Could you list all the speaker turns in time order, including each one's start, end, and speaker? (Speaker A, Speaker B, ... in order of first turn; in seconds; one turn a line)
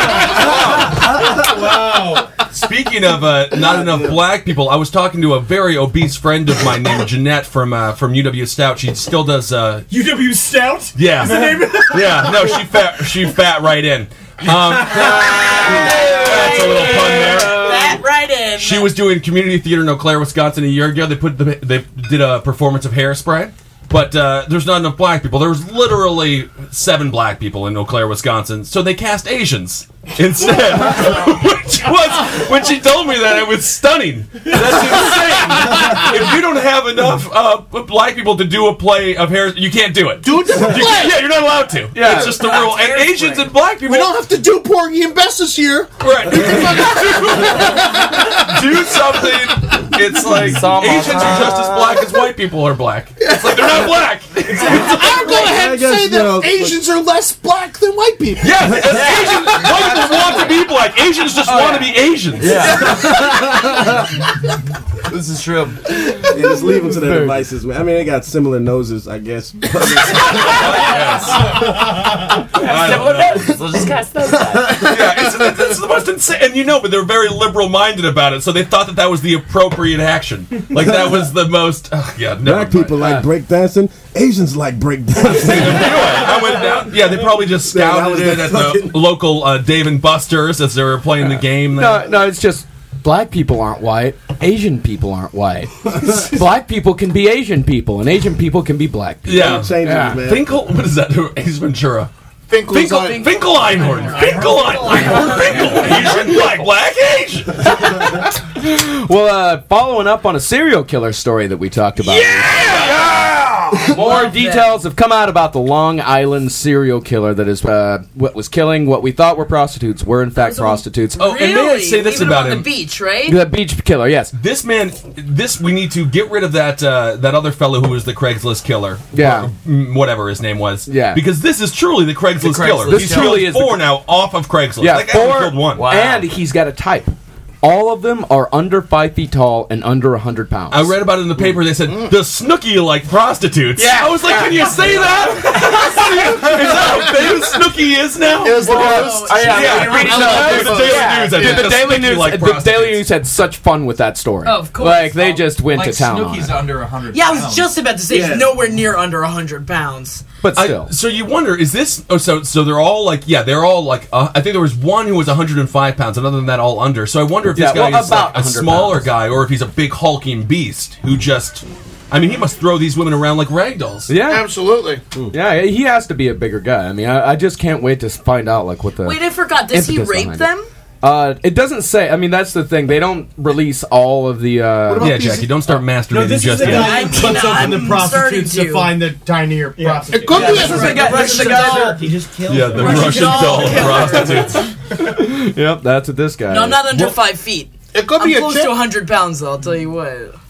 Speaker A: 0.2-2.3
Speaker B: 0.2-0.9
Speaker B: 2.5-9.8
Speaker C: 3.6-4.1
Speaker A: 9.9-12.8
Speaker B: 10.9-18.0
Speaker A: 14.5-15.2
Speaker D: 15.2-18.9
Speaker E: 16.5-17.9
Speaker B: 18.6-44.1
Speaker F: 40.2-41.3
Speaker E: 41.9-42.6
Speaker F: 43.8-48.8
Speaker B: 46.0-55.4
Speaker G: 50.2-52.1
Speaker F: 53.2-53.9
Speaker F: 54.6-60.3
Speaker C: 55.3-56.8
Speaker B: 58.4-63.1
Speaker C: 58.6-59.1
Speaker E: 61.4-62.0
Speaker G: 62.4-63.4
Speaker C: 63.0-63.8
Speaker G: 65.0-66.1
Speaker C: 66.3-71.2
Speaker E: 66.9-67.4
Speaker B: 70.2-71.9
Speaker G: 72.5-74.9
Speaker B: 72.5-73.6
Speaker C: 74.3-75.2
Speaker B: 74.7-82.9
Speaker C: 82.4-89.0
Speaker E: 83.0-83.3
Speaker B: 85.2-92.1
Speaker E: 91.7-100.3
Speaker C: 96.0-96.4
Speaker B: 99.2-102.1
Speaker C: 99.3-100.7
Speaker F: 102.5-103.3
Speaker B: 102.7-107.8
Speaker D: 103.7-106.0
Speaker E: 108.5-121.2
Speaker B: 112.4-113.1
Speaker D: 113.9-114.7
Speaker D: 120.3-123.4
Speaker B: 121.2-122.7
Speaker E: 123.2-124.3
Speaker B: 124.3-135.8
Speaker E: 129.1-129.5
Speaker E: 130.8-131.2
Speaker G: 132.4-133.4
Speaker E: 132.9-133.8
Speaker E: 134.8-140.9
Speaker G: 135.7-136.3
Speaker B: 140.7-153.1
Speaker F: 141.8-142.1
Speaker E: 143.8-145.1
Speaker G: 144.0-144.6
Speaker F: 145.7-147.6
Speaker F: 148.4-151.5
Speaker E: 148.6-156.6
Speaker D: 148.7-149.6
Speaker G: 148.7-151.7
Speaker D: 154.4-155.4
Speaker H: 155.1-157.7
Speaker D: 157.1-160.2
Speaker C: 158.1-158.6
Speaker E: 160.4-160.9
Speaker B: 160.5-174.1
Speaker E: 167.5-169.1
Speaker E: 174.1-174.5
Speaker F: 174.2-175.0
Speaker E: 175.3-180.5
Speaker D: 179.0-180.7
Speaker E: 181.0-185.3
Speaker F: 184.9-185.8
Speaker B: 185.0-187.4
Speaker A: 186.1-190.5
Speaker D: 186.6-189.0
Speaker I: 189.8-194.0
Speaker F: 190.1-191.7
Speaker E: 190.3-192.1
Speaker D: 190.3-192.1
Speaker B: 192.5-194.7
Speaker D: 192.7-194.7
Speaker E: 193.7-194.4
Speaker E: 194.9-196.8
Speaker D: 196.5-200.4
Speaker B: 196.9-197.2
Speaker F: 197.9-198.8